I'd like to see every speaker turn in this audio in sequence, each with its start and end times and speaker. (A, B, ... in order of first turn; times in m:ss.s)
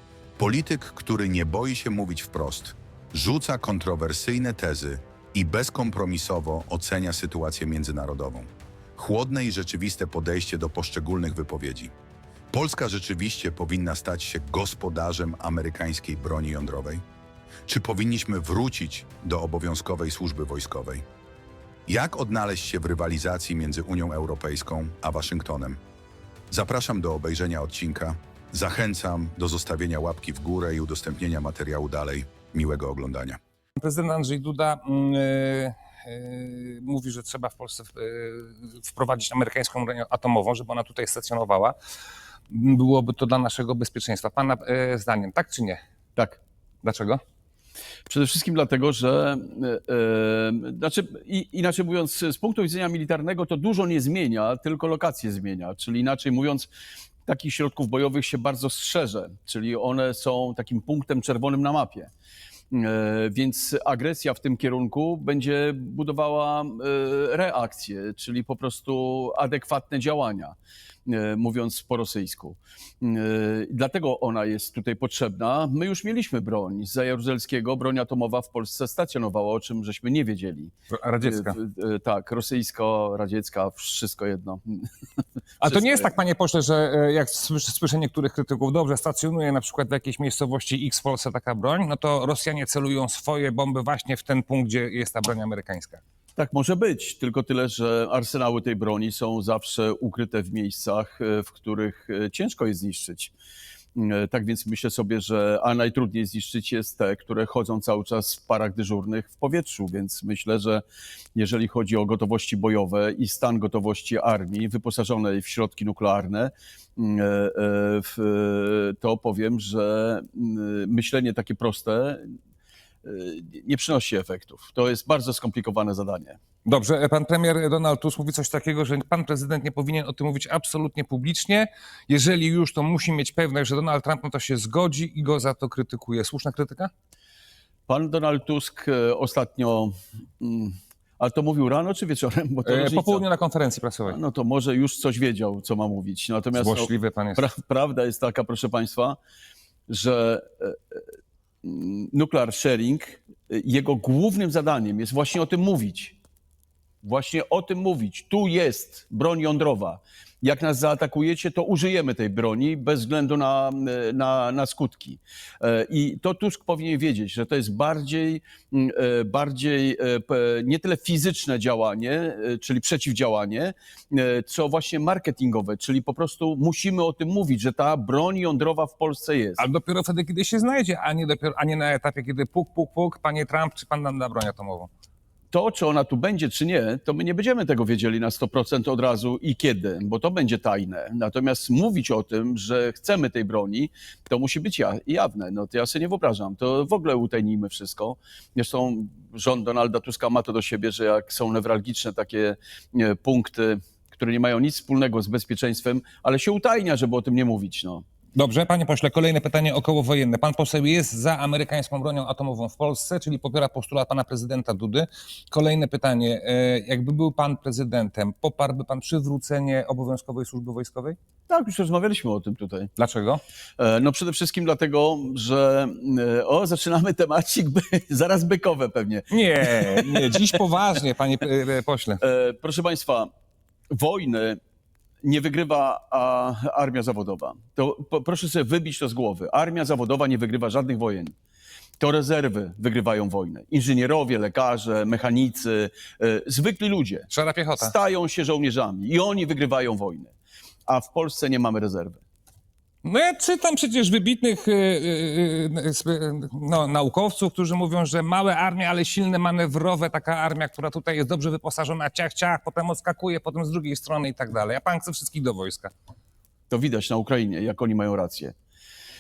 0:00.4-0:11.9 A
0:12.5-0:17.0 A
0:17.6-0:21.0 A
0:21.9-0:25.8 A
0:26.5-0:33.4 A
0:33.8-0:41.7 B
0:42.5-0:45.8 B
0:46.8-0:47.2 B
0:48.1-0:56.7 C
0:57.2-1:02.1 C
1:02.7-1:24.9 C
1:21.0-1:21.5 B
1:25.6-1:36.0 B
1:25.6-1:26.1 C
1:36.4-1:43.3 C
1:43.9-1:50.8 C
1:51.3-2:02.2 C
2:03.0-2:06.4 C
2:06.6-2:16.9 B
2:17.9-2:23.2 C
2:22.6-2:24.2 B
2:24.1-2:29.2 C
2:26.6-2:27.4 B
2:29.9-2:31.0 C
2:31.6-2:36.2 C
2:37.0-2:59.6 C
2:59.6-3:04.9 B
3:05.5-3:28.0 C
3:28.3-3:41.2 B
3:41.5-3:42.9 C
3:43.0-3:43.4 B
3:43.8-3:51.0 C
3:49.3-3:52.2 B
3:52.2-3:53.3 C
3:53.9-3:54.6 C
3:55.2-4:01.3 C
4:02.0-4:10.3 C
4:07.3-4:07.9 B
4:10.9-4:12.2 C
4:13.0-4:25.9 B
4:26.7-4:28.5 C